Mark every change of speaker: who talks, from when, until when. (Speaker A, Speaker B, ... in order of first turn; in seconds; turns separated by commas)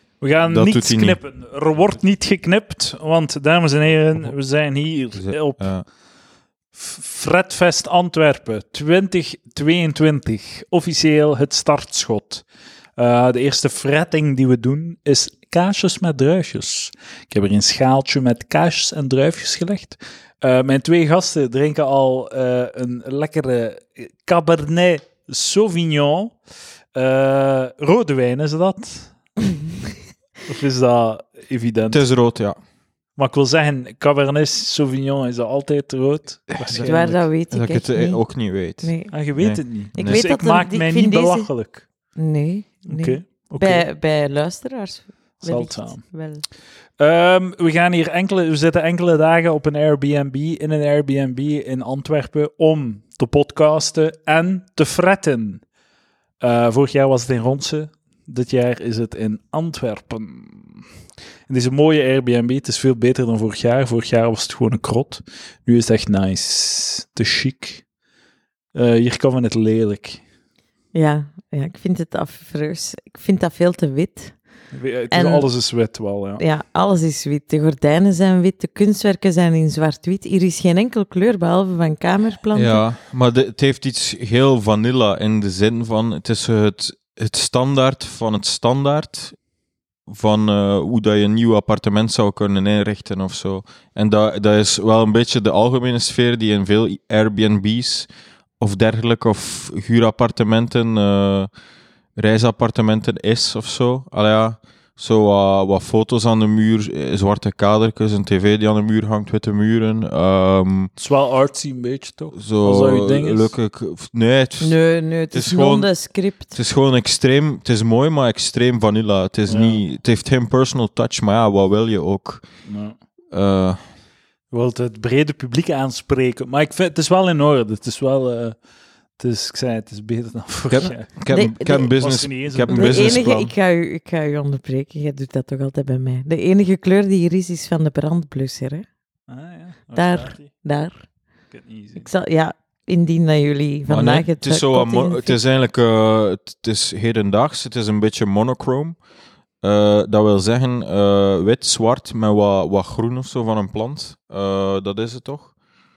Speaker A: 0.2-5.7, Speaker B: 0.5-1.2, Speaker B: 5.2-5.8, Speaker A: 6.7-12.4, Speaker A: 13.0-26.3, Speaker A: 26.9-29.1, Speaker A: 30.5-32.0, Speaker B: 31.9-32.6, Speaker A: 33.2-37.3, Speaker C: 36.8-38.2, Speaker B: 37.5-40.2, Speaker C: 38.8-39.1, Speaker A: 39.1-41.8, Speaker C: 40.0-41.5, Speaker C: 42.2-46.4, Speaker A: 42.9-43.9, Speaker A: 45.4-46.0, Speaker A: 47.0-55.6, Speaker A: 56.4-60.8, Speaker A: 61.5-67.8, Speaker A: 68.7-70.2, Speaker C: 70.9-74.3, Speaker A: 74.7-76.4, Speaker C: 75.1-75.5, Speaker C: 76.4-82.8, Speaker B: 82.5-89.4, Speaker B: 90.1-98.1, Speaker B: 98.6-101.5, Speaker B: 102.2-110.9, Speaker A: 111.0-113.5, Speaker B: 112.3-114.8, Speaker C: 114.6-116.5, Speaker B: 115.3-115.9, Speaker B: 116.5-122.4, Speaker A: 119.5-119.8, Speaker A: 122.7-123.0, Speaker B: 123.3-123.8, Speaker A: 124.5-128.6, Speaker A: 129.2-131.1, Speaker B: 130.7-133.5, Speaker C: 131.3-131.9, Speaker A: 131.9-133.3, Speaker C: 132.7-138.8, Speaker A: 139.3-140.5, Speaker C: 139.9-141.0, Speaker A: 141.5-142.1, Speaker C: 141.9-145.4, Speaker B: 143.9-149.0, Speaker B: 149.6-155.5